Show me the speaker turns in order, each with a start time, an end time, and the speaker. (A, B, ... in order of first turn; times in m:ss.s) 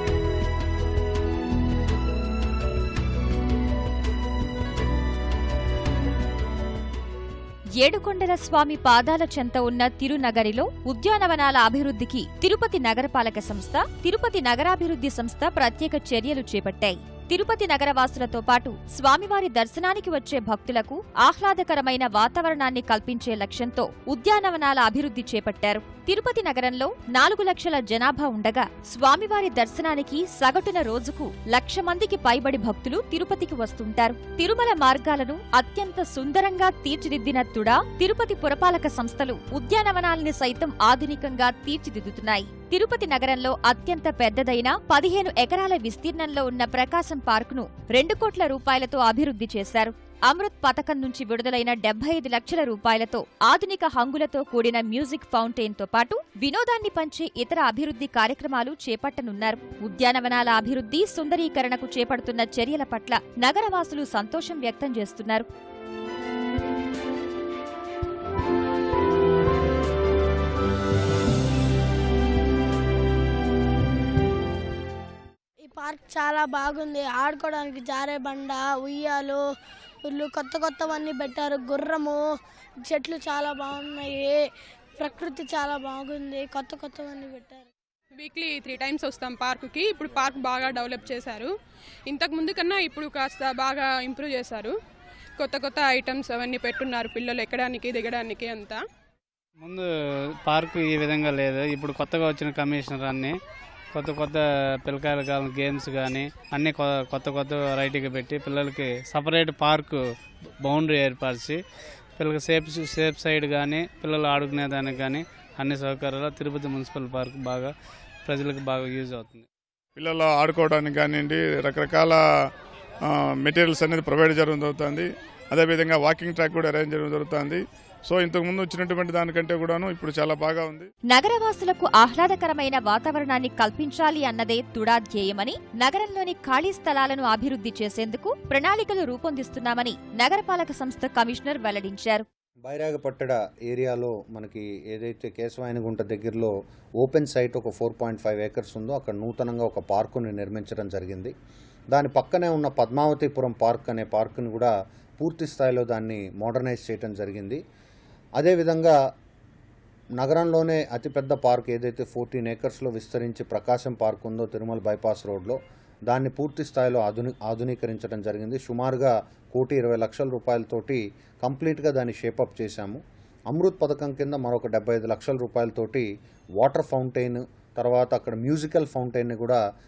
0:07.8-1:05.5 A
1:15.6-1:19.4 B
1:20.0-1:22.2 B
1:22.8-1:24.4 B
1:25.0-1:27.7 B
1:28.2-1:31.5 C
1:32.1-1:34.8 C
1:35.4-1:38.8 C
1:39.6-1:39.9 D
1:40.4-1:43.3 D
1:43.9-1:50.0 D
1:50.6-1:51.6 D
1:52.2-1:57.7 D
1:58.2-1:59.5 D
2:00.0-2:02.2 E
2:03.1-2:10.9 E
2:11.1-2:22.2 A
2:22.6-2:31.3 F
2:31.9-2:37.6 F
2:38.4-2:38.9 F
2:40.2-2:45.6 F
2:46.1-2:53.0 F
2:53.5-2:56.1 F
2:56.6-2:59.6 F